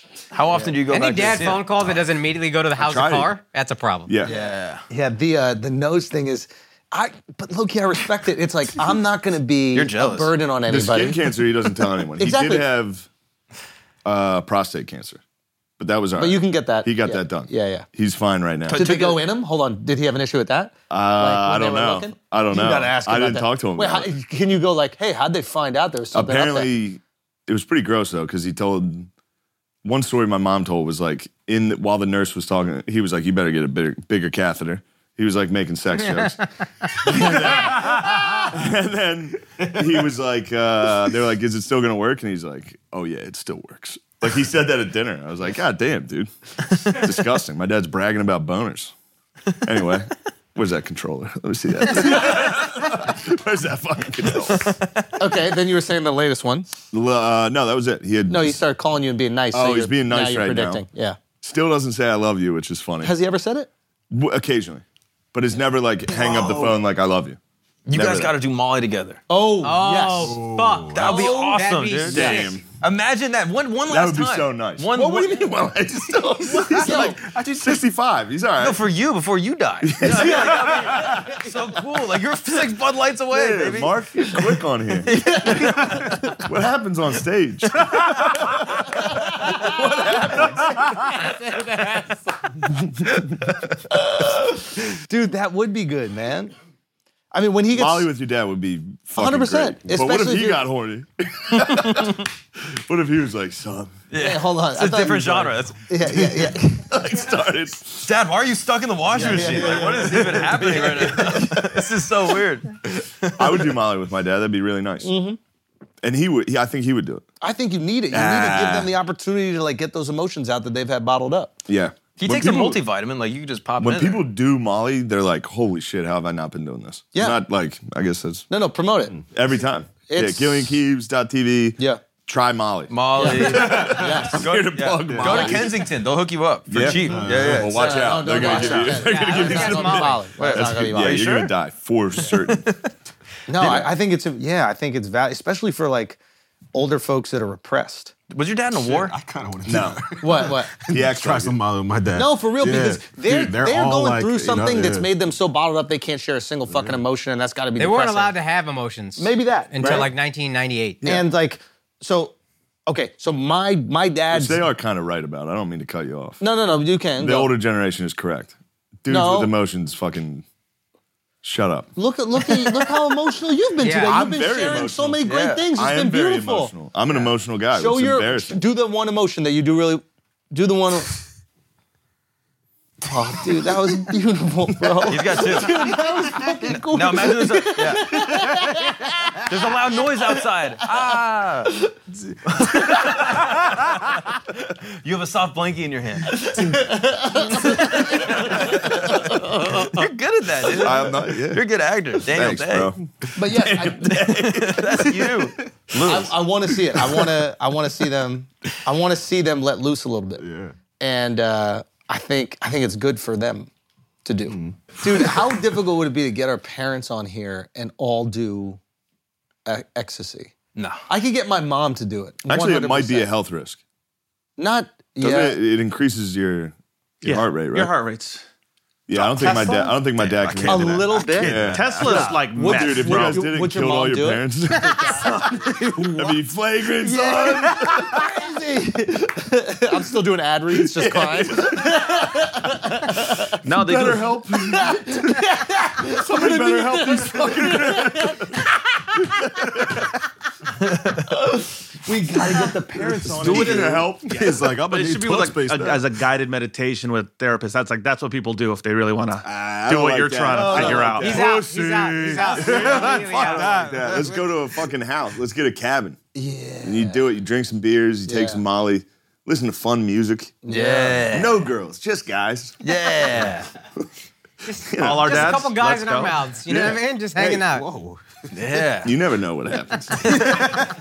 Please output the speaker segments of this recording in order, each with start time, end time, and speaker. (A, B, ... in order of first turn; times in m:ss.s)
0:00.3-0:01.9 A
0:00.9-0:04.1 B
0:02.8-0:03.3 C
0:04.2-0:04.8 A
0:04.3-0:11.2 D
0:09.7-0:10.3 A
0:10.7-0:13.1 C
0:12.2-0:12.7 D
0:14.0-0:15.2 C
0:15.8-0:18.8 C
0:16.2-0:17.8 D
0:18.7-0:19.2 A
0:18.7-0:26.7 D
0:20.9-0:24.1 C
0:26.1-0:29.1 C
0:29.8-0:36.4 C
0:36.9-0:48.9 C
0:49.6-0:54.7 C
0:54.5-0:54.9 A
0:55.2-0:56.7 D
0:56.9-0:58.6 C
0:58.3-1:01.2 D
0:59.5-1:00.8 C
1:01.4-1:03.1 C
1:03.0-1:03.7 D
1:04.1-1:07.4 C
1:06.3-1:06.6 D
1:07.9-1:09.2 A
1:07.9-1:08.3 C
1:09.3-1:10.4 D
1:09.6-1:12.6 B
1:10.2-1:10.9 E
1:10.9-1:15.5 A
1:11.0-1:11.6 D
1:12.1-1:12.6 C
1:13.9-1:18.8 C
1:14.9-1:15.6 D
1:16.4-1:17.2 D
1:16.6-1:17.8 A
1:18.6-1:23.9 A
1:19.8-1:21.0 C
1:20.0-1:21.5 D
1:23.3-1:25.6 C
1:25.0-1:26.1 A
1:25.2-1:26.4 D
1:26.4-1:28.8 C
1:27.8-1:28.2 A
1:29.2-1:32.5 D
1:29.3-1:31.0 C
1:33.9-1:36.5 D
1:37.3-1:38.1 D
1:37.7-1:43.9 C
1:39.1-1:40.6 D
1:44.1-1:45.8 A
1:44.2-1:46.8 D
1:46.0-1:48.1 C
1:48.0-1:53.6 A
1:49.1-1:51.3 D
1:49.3-1:51.9 C
1:53.4-1:55.1 C
1:55.0-1:55.4 D
1:56.0-1:57.2 C
1:57.4-2:01.5 D
1:58.1-1:58.9 C
2:01.7-2:02.8 C
2:02.2-2:04.2 A
2:03.8-2:08.5 C
2:07.1-2:07.4 D
2:08.5-2:09.2 D
2:09.3-2:15.9 C
2:10.1-2:10.8 D
2:12.9-2:18.9 A
2:13.2-2:14.4 D
2:15.1-2:15.4 E
2:15.2-2:15.6 D
2:16.7-2:22.7 C
2:16.9-2:17.7 E
2:17.7-2:21.2 D
2:18.9-2:20.3 B
2:20.4-2:21.5 A
2:22.2-2:22.8 A
2:23.5-2:26.2 D
2:26.7-2:28.1 D
2:28.3-2:29.2 A
2:28.8-2:35.1 E
2:29.7-2:31.6 C
2:30.2-2:30.7 D
2:32.1-2:38.3 D
2:36.7-2:37.0 E
2:37.8-2:41.0 B
2:39.2-2:40.1 D
2:39.8-2:40.1 C
2:41.0-2:42.3 D
2:42.9-2:44.6 D
2:44.3-2:46.4 C
2:46.4-2:47.5 D
2:47.2-2:50.4 C
2:49.1-2:49.5 D
2:51.4-2:51.9 C
2:52.0-2:56.7 D
2:53.8-2:54.2 B
2:54.0-2:58.6 C
2:55.2-2:55.6 A
2:57.7-3:01.1 D
3:03.0-3:09.5 D
3:05.1-3:05.7 A
3:06.8-3:08.2 A
3:09.4-3:11.7 A
3:12.5-3:16.4 A
3:16.4-3:19.7 D
3:17.9-3:22.9 A
3:20.7-3:21.6 C
3:22.2-3:25.4 C
3:23.4-3:24.3 D
3:24.0-3:26.4 A
3:26.0-3:30.4 D
3:30.4-3:30.7 E
3:31.0-3:33.7 D
3:34.2-3:38.8 D
3:34.5-3:34.8 E
3:39.6-3:40.5 D
3:40.8-3:41.0 A
3:41.1-3:43.3 D
3:42.4-3:43.8 C
3:44.6-3:45.6 D
3:45.2-3:47.9 C
3:47.2-3:48.4 F
3:49.1-3:55.3 C
3:49.4-3:49.8 D
3:49.4-3:49.8 F
3:50.1-3:52.2 A
3:50.6-3:56.4 D
3:51.4-3:53.4 F
3:56.0-3:58.2 C
3:57.0-4:03.6 D
4:00.7-4:02.5 C
4:03.1-4:05.5 C
4:03.6-4:04.3 F
4:04.6-4:08.6 D
4:06.0-4:08.6 C
4:09.2-4:10.1 C
4:12.0-4:14.0 D
4:13.0-4:14.5 C
4:13.4-4:16.0 E
4:14.4-4:21.4 F
4:19.4-4:26.2 C
4:20.5-4:21.2 D
4:21.2-4:24.0 B
4:23.6-4:23.9 F
4:26.3-4:27.2 D
4:26.8-4:30.6 C
4:28.2-4:28.6 D
4:30.6-4:31.3 D
4:30.7-4:31.7 A
4:31.3-4:32.8 C
4:32.8-4:33.7 A
4:34.6-4:37.9 B
4:34.8-4:35.7 C
4:35.0-4:36.4 F
4:36.6-4:37.7 C
4:37.8-4:38.2 E
4:38.5-4:39.1 A
4:39.0-4:40.8 C
4:40.2-4:40.7 A